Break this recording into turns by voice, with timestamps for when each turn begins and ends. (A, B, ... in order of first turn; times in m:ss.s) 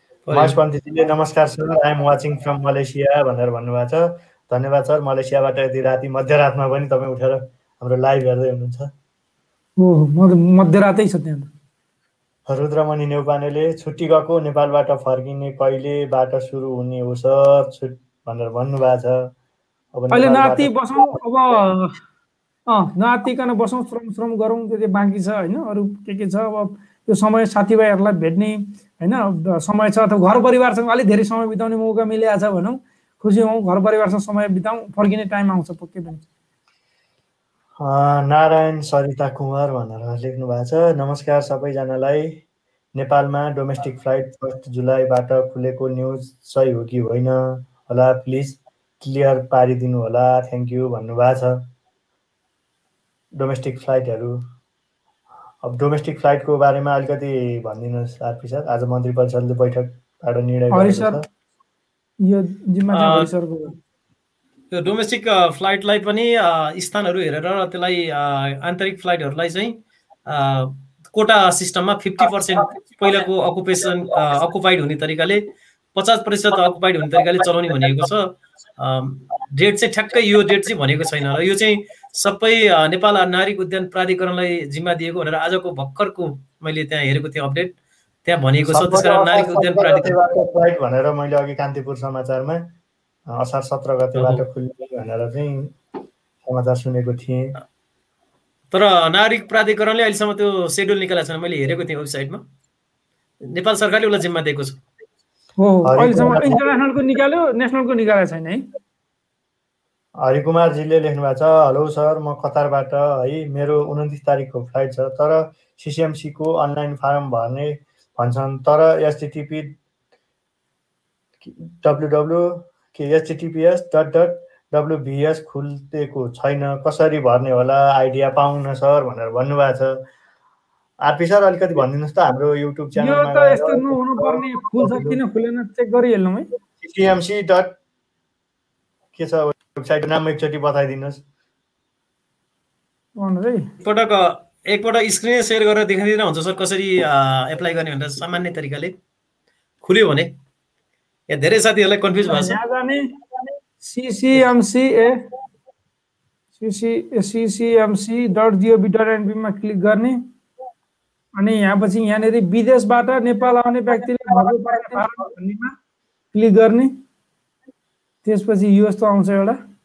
0:00.3-0:00.6 A
0:00.3-0:08.9 B
0:09.8-0:11.5 C
0:12.5-0:19.3 B
0:19.9-0:21.2 B
0:20.1-0:21.9 C
0:22.7-0:36.2 C
0:37.8-0:42.4 B
0:43.0-0:51.7 B
0:53.4-0:54.4 B
0:55.6-1:01.2 B
1:00.7-1:01.2 C
1:02.2-1:03.8 C
1:02.9-1:03.3 A
1:04.7-1:15.4 A
1:16.0-1:27.7 A
1:28.2-1:30.2 A
1:28.7-1:32.7 B
1:33.3-1:35.8 B
1:34.2-1:34.4 A
1:36.4-1:37.6 B
1:38.7-1:42.4 A
1:43.4-1:44.8 A
1:45.6-1:48.6 C
1:45.8-1:46.6 B
1:50.2-1:59.8 B
2:01.4-2:10.0 B
2:11.0-2:15.2 B
2:13.0-2:16.5 C
2:16.8-2:17.7 B
2:19.2-2:21.2 B
2:23.2-2:23.6 C
2:23.8-2:28.9 A
2:29.8-2:30.3 A
2:31.3-2:32.6 A
2:32.3-2:33.1 C
2:33.8-2:35.2 C
2:36.6-2:40.2 C
2:41.4-2:45.7 C
2:46.3-2:46.9 C
2:48.2-2:49.6 C